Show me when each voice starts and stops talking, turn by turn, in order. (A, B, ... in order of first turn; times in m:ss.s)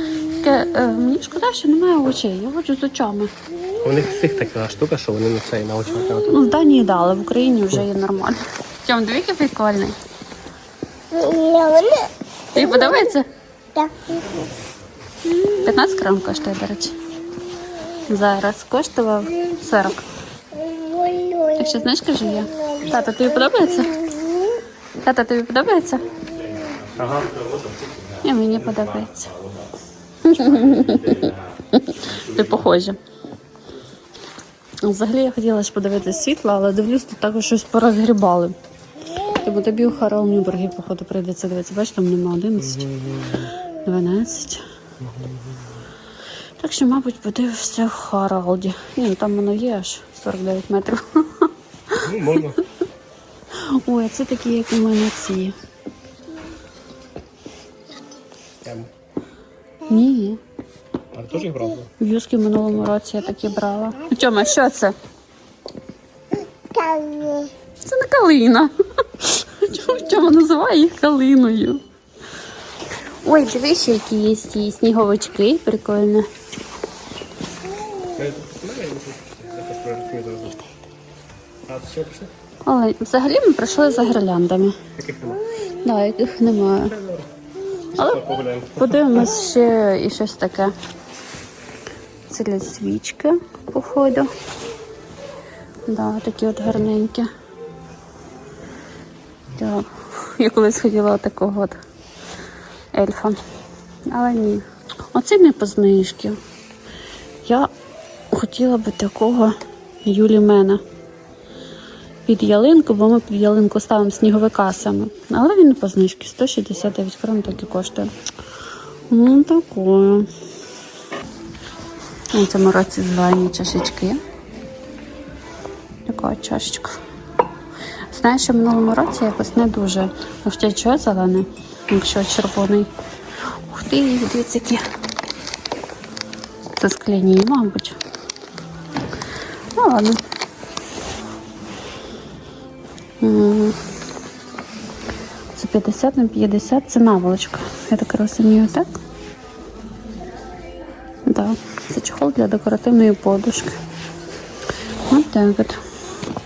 0:00.3-0:03.3 A
0:03.8-0:06.4 B
0:06.3-0:10.0 A
0:11.1-0:13.0 C
0:12.5-0:13.3 A
0:13.8-0:14.1 C
0:15.6-0:17.0 A
0:18.1-0:20.0 A
0:20.5-0:21.8 C
0:21.6-0:24.0 A
0:25.0-0:26.1 A
0:26.1-0:29.7 B
0:28.2-0:29.3 A
0:30.2-0:32.7 B
0:30.2-0:33.0 A
0:34.8-0:38.6 A
0:39.4-0:42.9 A
0:42.6-0:43.6 B
0:43.8-0:44.6 A
0:45.0-0:45.7 B
0:46.6-0:52.1 A
0:52.0-0:52.6 B
0:53.5-0:55.6 A
0:58.6-0:58.9 B
0:59.9-1:00.4 A
1:01.1-1:01.9 B
1:02.0-1:05.0 A
1:06.7-1:07.5 C
1:07.8-1:11.8 A
1:13.2-1:16.3 A
1:18.1-1:20.6 B
1:21.7-1:22.3 B
1:22.7-1:24.8 A
1:25.0-1:25.4 B
1:25.8-1:27.0 A
1:26.8-1:27.3 B
1:28.0-1:29.1 B
1:28.8-1:30.7 A
1:32.3-1:34.3 A
1:35.9-1:37.3 A
1:39.5-1:41.8 A
1:42.9-1:43.4 A
1:44.1-1:46.4 A
1:47.4-1:47.7 A
1:48.3-1:50.8 A
1:52.3-1:58.1 A
1:59.1-2:00.3 A
2:02.3-2:04.2 A
2:06.1-2:07.0 A
2:08.1-2:12.9 A
2:13.7-2:14.8 A
2:16.8-2:18.0 A
2:19.8-2:20.2 A
2:23.2-2:23.8 A
2:25.6-2:28.9 A
2:31.3-2:33.8 A
2:35.1-2:35.8 A